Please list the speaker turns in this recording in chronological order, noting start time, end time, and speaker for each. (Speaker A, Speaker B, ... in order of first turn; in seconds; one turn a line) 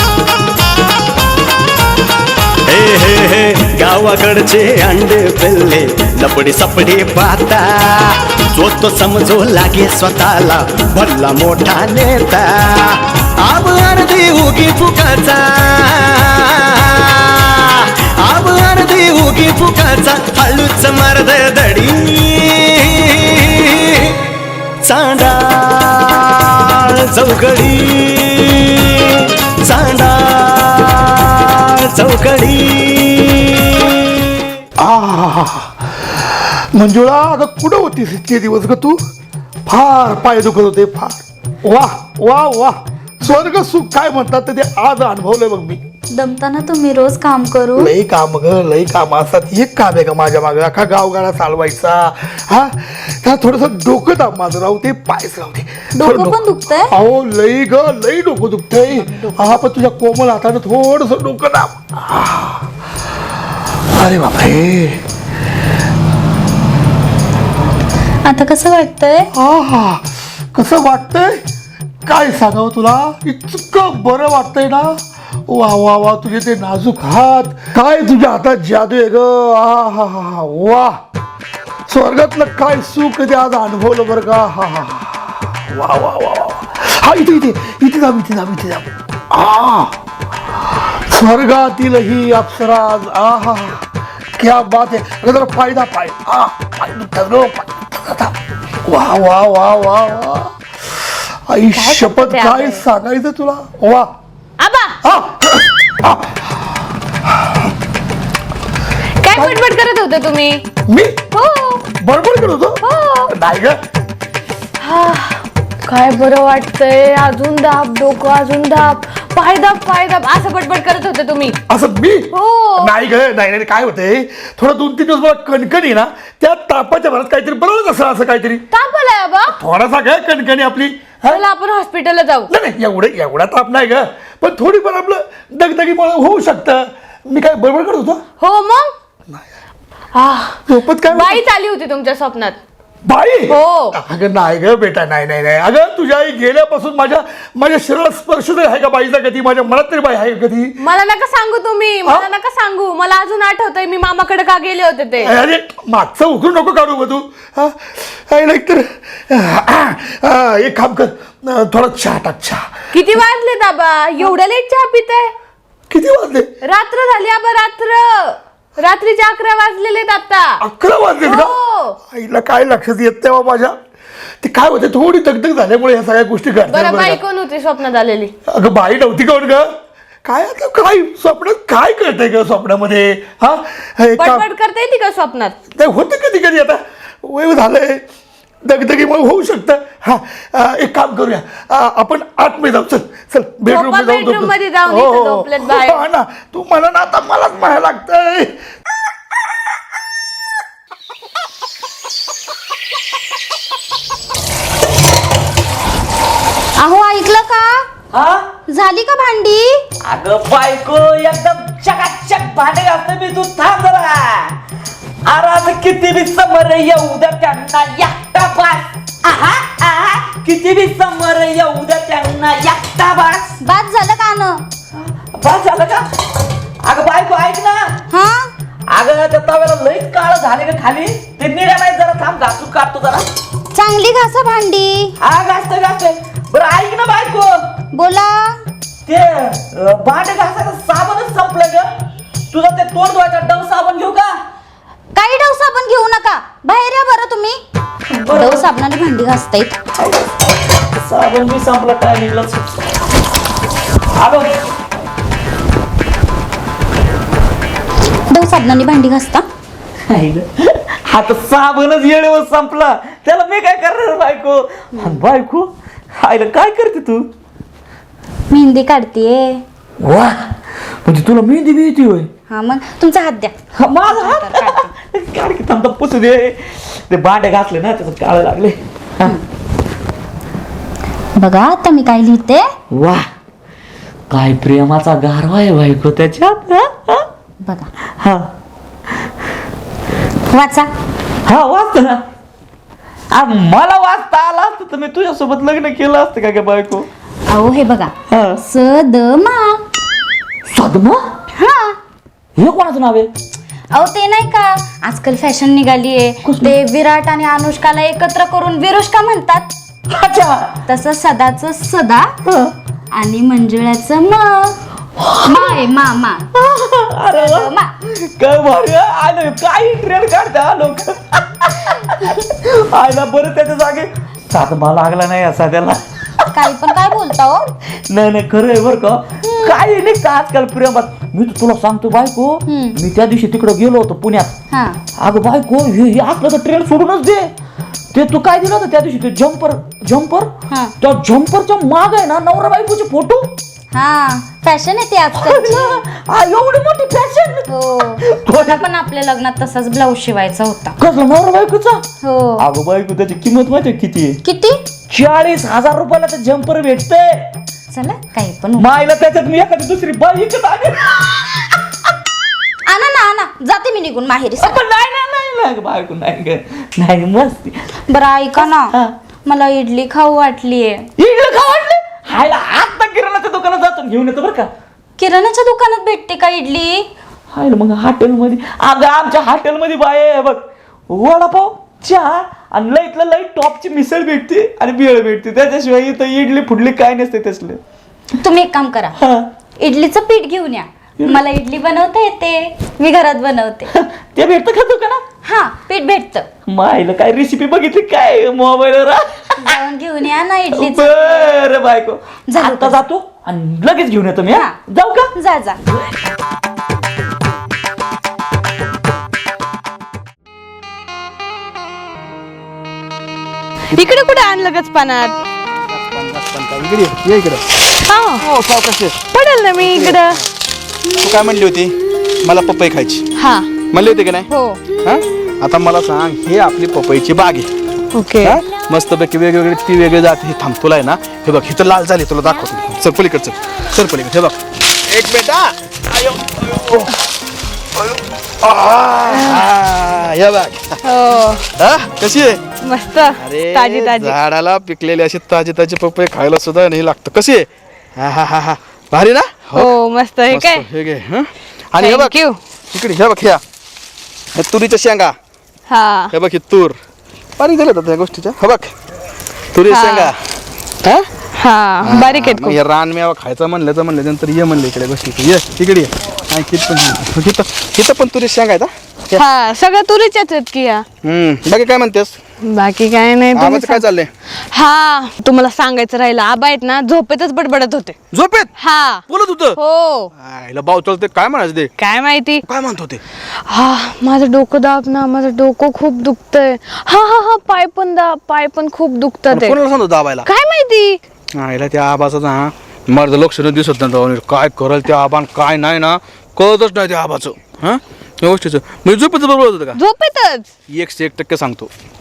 Speaker A: 2.7-24.1
Speaker A: 24.8-34.2
Speaker B: 34.8-39.0
Speaker B: 39.7-45.8
Speaker C: 46.1-47.9
Speaker B: 47.8-62.6
Speaker C: 56.0-56.9
Speaker B: 64.0-65.0
Speaker C: 68.2-69.3
Speaker B: 69.3-71.4
Speaker B: 72.1-75.0
Speaker B: 75.5-81.0
Speaker B: 81.9-90.0
Speaker B: 90.6-93.8
Speaker B: 94.4-98.3
Speaker B: 98.8-104.1
Speaker D: 101.8-102.8
Speaker D: 104.6-105.0
Speaker B: 105.0-106.7
Speaker B: 107.3-107.7
Speaker D: 109.2-110.6
Speaker B: 109.3-109.6
Speaker B: 110.9-111.2
Speaker D: 111.3-111.8
Speaker B: 112.0-113.8
Speaker D: 112.8-113.3
Speaker D: 114.8-121.6
Speaker B: 121.7-128.6
Speaker D: 122.3-122.9
Speaker D: 128.7-129.6
Speaker B: 129.5-131.4
Speaker D: 131.3-132.5
Speaker B: 132.5-138.2
Speaker D: 138.4-138.9
Speaker D: 140.2-142.6
Speaker B: 140.7-141.4
Speaker B: 143.1-150.7
Speaker D: 143.5-144.0
Speaker D: 150.8-155.3
Speaker B: 155.2-162.7
Speaker D: 162.9-165.3
Speaker B: 165.9-166.5
Speaker D: 166.7-170.6
Speaker B: 170.6-171.6
Speaker D: 171.2-172.0
Speaker B: 172.1-173.8
Speaker B: 174.4-177.2
Speaker D: 176.7-178.3
Speaker B: 178.5-179.7
Speaker B: 180.2-184.5
Speaker D: 184.2-185.6
Speaker B: 185.8-188.0
Speaker B: 188.7-198.6
Speaker D: 193.7-196.0
Speaker C: 206.8-207.9
Speaker E: 208.1-208.5
Speaker C: 208.7-209.8
Speaker E: 210.0-214.6
Speaker E: 215.2-223.6
Speaker C: 223.6-224.6
Speaker E: 225.3-226.1
Speaker E: 226.8-228.0
Speaker C: 228.1-228.5
Speaker E: 228.9-233.3
Speaker C: 233.7-235.2
Speaker E: 235.2-237.7
Speaker C: 237.9-238.6
Speaker E: 239.1-241.9
Speaker E: 242.5-244.4
Speaker C: 245.2-247.6
Speaker E: 248.1-248.7
Speaker C: 248.3-249.8
Speaker E: 250.0-252.8
Speaker E: 254.2-254.6
Speaker C: 258.3-259.5
Speaker E: 260.1-267.3
Speaker C: 265.0-265.2
Speaker C: 268.5-269.6
Speaker E: 270.0-270.5
Speaker E: 271.0-272.3
Speaker C: 272.5-274.9
Speaker E: 273.8-279.4
Speaker C: 281.4-282.7
Speaker E: 282.9-283.3
Speaker E: 284.3-287.3
Speaker C: 287.6-287.9
Speaker E: 288.2-288.5
Speaker C: 290.5-290.9
Speaker E: 291.4-292.2
Speaker E: 293.3-297.1
Speaker C: 297.5-299.8
Speaker E: 298.3-298.6
Speaker E: 300.7-301.3
Speaker C: 301.6-302.0
Speaker E: 302.6-303.3
Speaker C: 303.9-309.7
Speaker E: 306.4-306.8
Speaker E: 310.1-310.8
Speaker C: 310.9-312.4
Speaker E: 312.5-312.7
Speaker C: 313.1-314.8
Speaker E: 315.2-315.9
Speaker C: 315.4-316.5
Speaker E: 316.6-326.0
Speaker C: 317.3-317.9
Speaker C: 326.5-327.7
Speaker E: 328.1-334.5
Speaker C: 329.4-329.8
Speaker C: 332.7-333.0
Speaker C: 334.7-335.0
Speaker E: 335.2-337.5
Speaker E: 338.1-343.5
Speaker C: 340.7-340.9
Speaker C: 343.9-346.0
Speaker E: 345.4-347.7
Speaker C: 347.7-351.0
Speaker E: 348.2-348.8
Speaker E: 351.0-352.1
Speaker C: 352.2-352.6
Speaker E: 352.6-354.4
Speaker C: 354.4-354.8
Speaker E: 355.1-357.5
Speaker C: 357.9-358.9
Speaker E: 358.8-361.1
Speaker C: 362.9-364.8
Speaker E: 364.6-367.8
Speaker C: 368.1-368.9
Speaker E: 368.6-369.1
Speaker C: 369.5-371.1
Speaker E: 371.2-374.7
Speaker C: 375.2-377.1
Speaker E: 377.5-387.8
Speaker C: 388.4-389.2
Speaker E: 389.2-389.5
Speaker C: 389.8-393.9
Speaker E: 393.9-395.2
Speaker C: 395.4-396.5
Speaker E: 396.7-399.7
Speaker C: 399.6-401.5
Speaker E: 400.7-405.3
Speaker C: 402.5-403.0
Speaker C: 404.5-404.8
Speaker C: 405.4-405.8
Speaker D: 413.9-415.4
Speaker F: 415.9-417.7
Speaker D: 418.1-418.5
Speaker F: 418.4-419.2
Speaker D: 419.3-420.4
Speaker F: 419.8-420.4
Speaker F: 421.1-423.3
Speaker D: 423.4-423.7
Speaker F: 423.9-424.5
Speaker D: 424.5-424.8
Speaker F: 425.0-427.7
Speaker D: 428.1-428.6
Speaker F: 428.4-437.2
Speaker F: 437.9-441.0
Speaker D: 439.3-439.6
Speaker D: 441.1-441.6
Speaker F: 441.8-442.6
Speaker D: 442.9-444.4
Speaker F: 443.4-449.9
Speaker D: 449.8-450.9
Speaker F: 450.5-452.4
Speaker D: 452.0-452.6
Speaker F: 452.9-453.6
Speaker F: 454.5-455.4
Speaker D: 455.9-456.3
Speaker F: 456.3-457.0
Speaker F: 457.6-458.9
Speaker F: 459.7-460.4
Speaker D: 459.9-460.3
Speaker D: 461.6-462.8
Speaker F: 462.0-469.4
Speaker D: 469.3-471.0
Speaker F: 471.2-472.4
Speaker D: 472.6-474.0
Speaker F: 473.5-474.3
Speaker D: 474.7-478.2
Speaker F: 478.3-478.7
Speaker D: 478.8-479.2
Speaker F: 479.3-479.8
Speaker D: 479.8-480.3
Speaker F: 480.3-481.9
Speaker D: 482.0-482.6
Speaker F: 482.6-483.2
Speaker D: 483.6-489.8
Speaker F: 489.5-490.5
Speaker D: 490.4-491.2
Speaker F: 491.5-500.0
Speaker D: 499.9-500.7
Speaker F: 500.9-501.9